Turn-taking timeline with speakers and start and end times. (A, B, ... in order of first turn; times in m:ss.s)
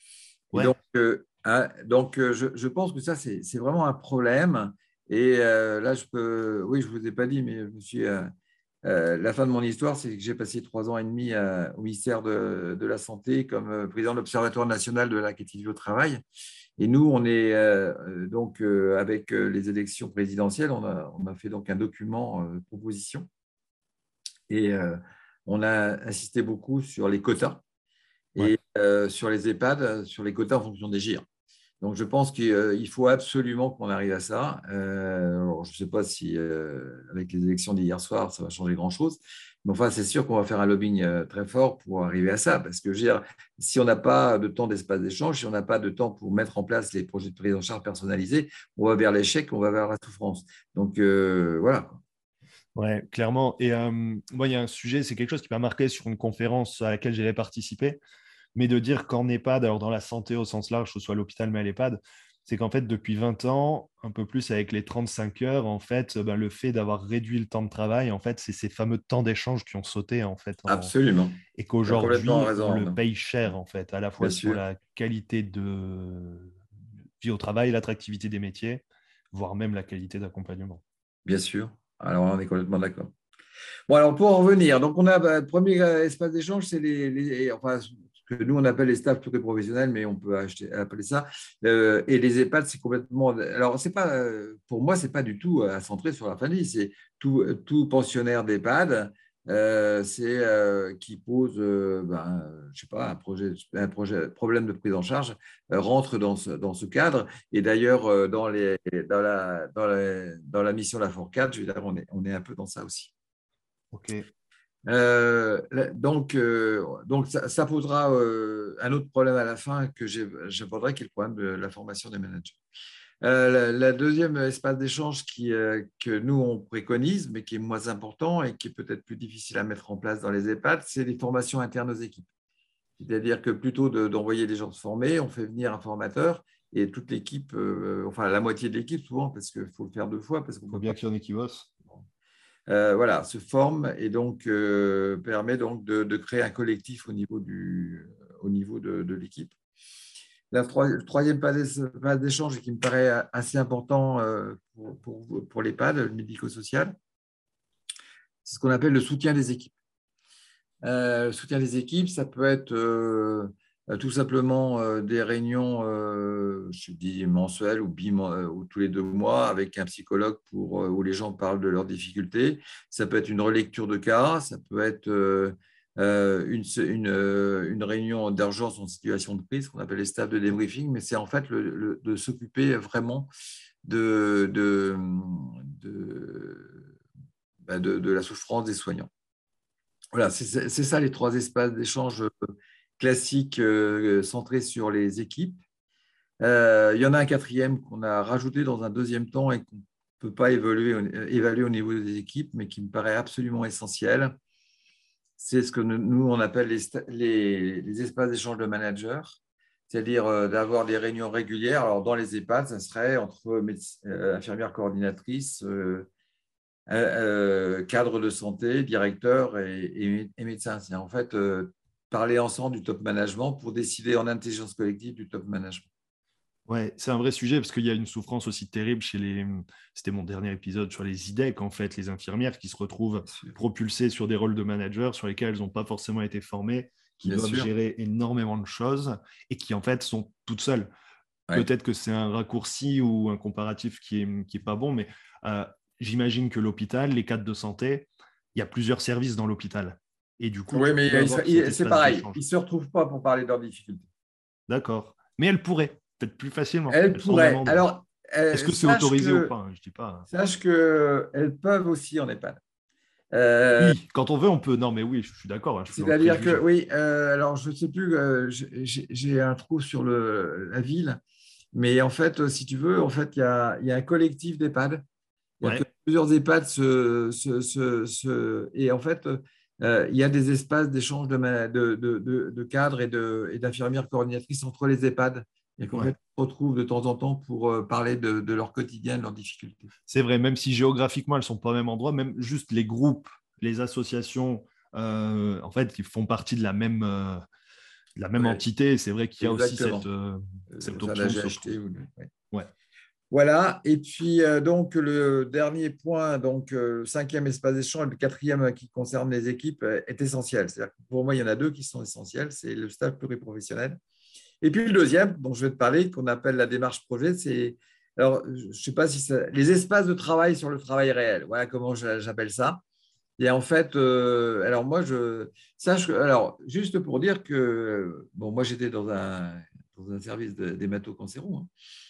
0:00.5-0:08.3 A
0:08.8-0:16.2 A
0:16.8-0:23.3 A
0:24.5-0:27.6 A
0:28.4-0:31.2 A
0:31.8-0:52.0 A
0:52.7-0:58.0 B
0:58.5-1:10.9 B
1:10.7-1:13.0 A
1:11.5-1:16.6 B
1:14.2-1:14.6 A
1:17.2-1:20.8 B
1:21.2-1:23.1 A
1:23.9-1:53.1 A
1:53.9-1:54.2 B
1:54.9-2:02.6 A
2:03.2-2:12.3 A
2:13.0-2:20.9 A
2:20.7-2:21.7 B
2:22.7-2:29.5 A
2:30.5-2:36.9 A
2:38.4-2:39.7 A
2:40.8-3:03.3 A
3:03.8-3:06.8 A
3:07.6-3:09.1 A
3:10.1-3:15.6 A
3:16.4-3:24.3 A
3:25.4-3:29.4 A
3:29.9-3:36.1 A
3:36.9-3:45.9 A
3:46.7-4:00.9 B
3:53.2-3:53.6 A
3:57.2-3:57.7 A
4:01.5-4:12.4 B
4:10.7-4:14.1 A
4:14.7-4:17.8 B
4:16.9-4:19.5 A
4:18.5-4:20.2 B
4:20.3-4:22.6 A
4:23.3-4:24.0 A
4:23.8-4:26.6 B
4:25.9-4:31.2 A
4:31.7-4:35.0 A
4:35.6-4:49.9 A
4:50.1-4:57.4 B
4:58.2-5:01.7 B
4:59.4-5:00.0 A
5:00.7-5:02.3 A
5:03.3-5:14.0 A
5:14.6-5:22.8 A
5:23.4-5:31.7 A